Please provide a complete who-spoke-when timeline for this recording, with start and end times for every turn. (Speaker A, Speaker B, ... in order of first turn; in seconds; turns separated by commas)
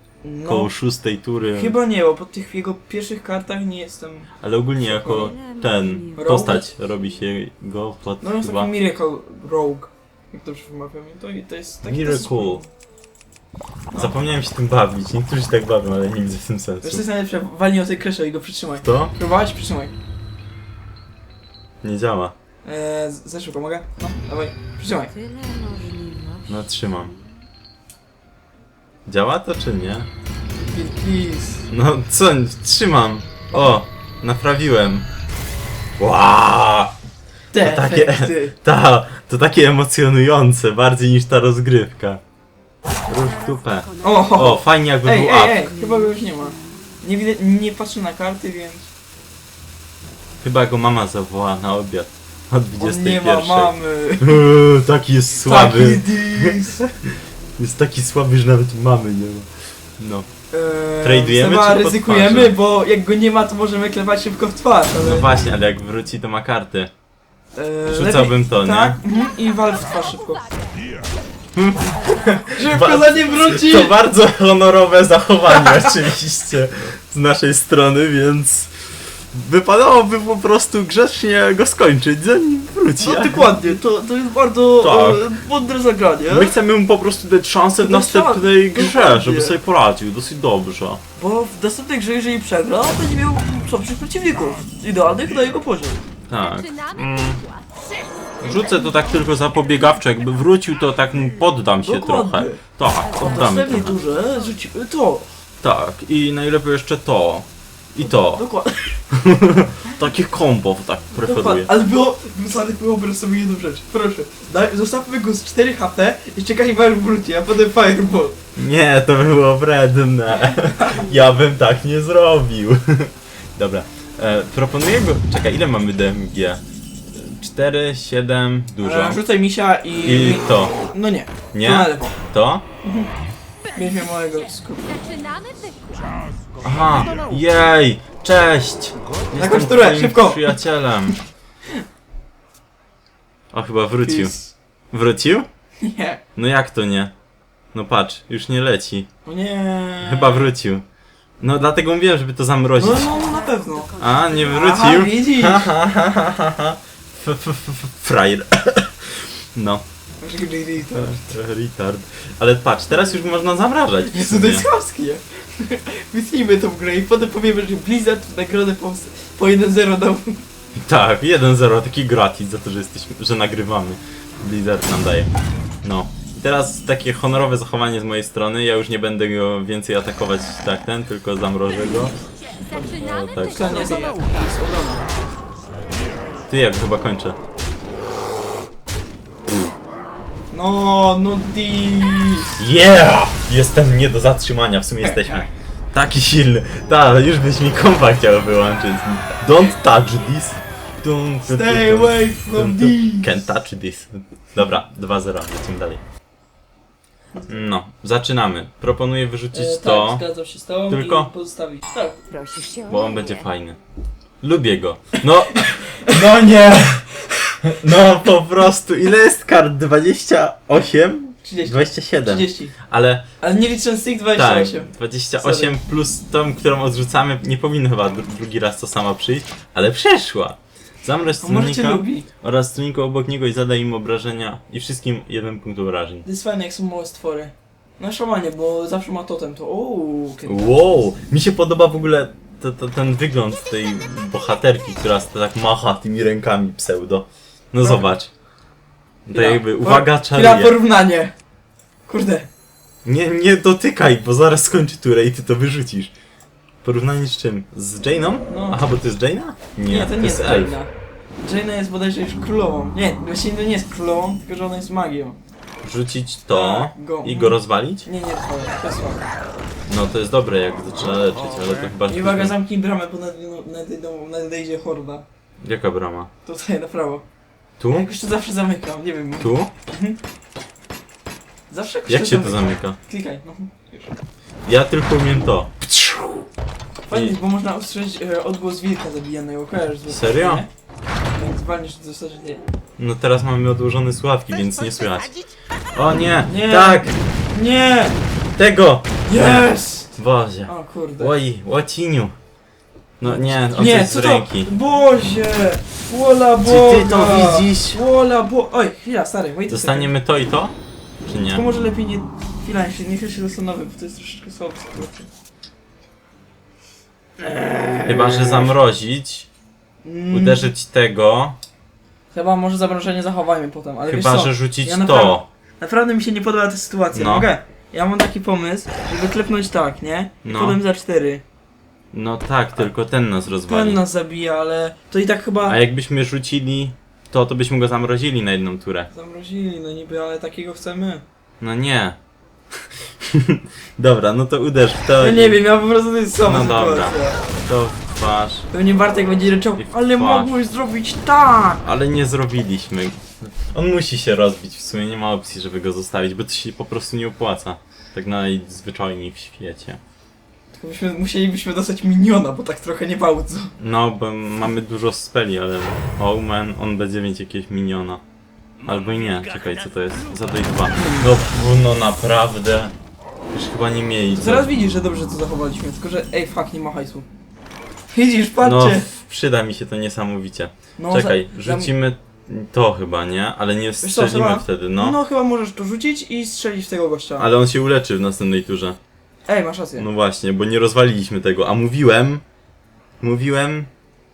Speaker A: 0.2-0.7, Speaker B: 0.4-1.7, Speaker A: 1.5-5.3, Speaker B: 4.4-8.7, Speaker C: 5.2-6.4, Speaker A: 6.2-6.7, Speaker A: 8.2-12.7, Speaker B: 11.8-12.6, Speaker B: 13.9-17.0, Speaker A: 16.8-19.9, Speaker B: 18.8-19.1, Speaker B: 21.8-22.3, Speaker A: 22.6-25.1, Speaker C: 25.1-26.6, Speaker B: 26.5-27.1, Speaker B: 29.1-30.1, Speaker A: 30.6-31.7, Speaker B: 31.7-35.1, Speaker B: 36.0-37.0, Speaker A: 37.5-38.5, Speaker B: 37.6-42.2, Speaker C: 43.1-44.5, Speaker B: 43.1-45.7, Speaker A: 44.0-48.9, Speaker C: 45.7-46.2, Speaker B: 50.4-60.3, Speaker A: 52.8-54.5, Speaker A: 55.4-56.8, Speaker A: 60.5-65.3, Speaker B: 61.0-62.5, Speaker B: 65.0-66.9, Speaker A: 67.5-70.5, Speaker B: 67.9-69.0, Speaker B: 71.5-83.6, Speaker A: 72.3-73.9, Speaker A: 75.6-75.9, Speaker A: 83.0-86.5, Speaker B: 84.8-85.3, Speaker B: 86.3-91.0, Speaker A: 87.8-89.6, Speaker A: 91.2-96.0, Speaker B: 96.3-97.4, Speaker C: 96.3-97.7, Speaker B: 98.4-104.0, Speaker A: 101.8-105.3, Speaker C: 103.1-104.4, Speaker B: 105.6-108.4, Speaker A: 108.0-109.0, Speaker B: 109.1-111.7, Speaker A: 111.2-118.4, Speaker B: 118.5-129.2, Speaker A: 128.8-132.2, Speaker B: 130.0-130.8, Speaker B: 131.5-132.6, Speaker A: 132.8-133.1, Speaker A: 133.7-135.1, Speaker C: 134.9-136.4, Speaker B: 136.6-141.2, Speaker A: 139.3-141.2, Speaker B: 143.5-144.3, Speaker A: 144.1-144.5, Speaker B: 144.9-145.5, Speaker A: 145.8-146.2, Speaker B: 146.3-147.1, Speaker B: 147.7-149.1, Speaker A: 149.2-150.5, Speaker B: 150.0-150.8, Speaker B: 151.4-153.1, Speaker A: 152.8-155.7, Speaker C: 153.0-155.0, Speaker B: 154.0-159.8, Speaker A: 160.2-161.3, Speaker B: 160.9-164.7, Speaker A: 164.1-170.4, Speaker B: 170.8-175.3, Speaker B: 175.8-182.1, Speaker C: 182.5-184.7, Speaker A: 182.7-185.1, Speaker B: 182.9-184.1, Speaker B: 186.5-187.4, Speaker A: 190.5-192.5, Speaker B: 192.6-206.0, Speaker A: 195.0-195.4, Speaker A: 201.5-203.3, Speaker B: 207.5-210.2, Speaker A: 209.5-212.2, Speaker B: 210.9-211.3, Speaker C: 212.3-213.4, Speaker B: 212.9-213.8, Speaker B: 214.4-223.3, Speaker A: 215.5-216.4, Speaker A: 221.4-222.7, Speaker A: 223.4-225.8, Speaker B: 224.3-236.2, Speaker A: 231.4-232.3, Speaker A: 236.2-240.8, Speaker B: 240.4-248.3, Speaker A: 247.8-248.1, Speaker B: 249.2-250.8, Speaker A: 249.3-251.3, Speaker A: 252.1-252.5, Speaker B: 253.0-256.1, Speaker B: 256.8-260.8, Speaker A: 258.5-258.8, Speaker A: 259.9-260.9, Speaker A: 261.4-265.4, Speaker B: 265.8-268.1, Speaker A: 266.5-269.2, Speaker B: 269.9-272.5, Speaker A: 272.1-275.2, Speaker B: 275.6-276.3, Speaker A: 276.4-277.2, Speaker B: 277.8-278.1, Speaker A: 277.9-280.2, Speaker B: 279.4-279.7, Speaker A: 281.7-284.1, Speaker B: 282.1-283.0, Speaker B: 284.6-286.4, Speaker A: 287.1-290.7, Speaker B: 287.1-287.4, Speaker B: 290.1-290.6, Speaker A: 291.3-292.6, Speaker B: 293.0-295.4, Speaker B: 295.9-297.2, Speaker A: 296.4-298.2, Speaker B: 298.6-302.3, Speaker A: 299.3-300.1, Speaker A: 300.6-301.3, Speaker B: 303.2-304.7, Speaker A: 303.2-310.1, Speaker B: 306.6-308.0, Speaker B: 309.7-311.6, Speaker A: 311.5-315.3, Speaker A: 317.4-318.8, Speaker B: 318.1-319.5, Speaker A: 320.0-320.7, Speaker B: 320.3-321.6, Speaker A: 322.3-331.4, Speaker B: 324.1-325.4, Speaker B: 327.1-327.5, Speaker B: 330.4-330.8, Speaker B: 332.1-334.0, Speaker A: 333.5-335.8, Speaker B: 335.6-339.1, Speaker A: 339.1-341.2, Speaker B: 341.6-342.2, Speaker B: 342.7-345.6, Speaker A: 345.2-347.4, Speaker B: 346.4-348.7, Speaker A: 348.7-351.8, Speaker B: 349.8-350.5, Speaker B: 351.8-360.0, Speaker A: 360.7-363.7, Speaker B: 363.8-368.2, Speaker B: 368.8-372.9, Speaker A: 370.9-371.3, Speaker B: 373.5-374.7, Speaker A: 374.4-377.3, Speaker A: 378.1-379.0, Speaker B: 378.6-385.2, Speaker A: 381.0-381.9, Speaker A: 384.0-387.5, Speaker B: 387.4-389.0, Speaker A: 389.4-390.1, Speaker B: 390.0-392.4, Speaker B: 393.2-393.9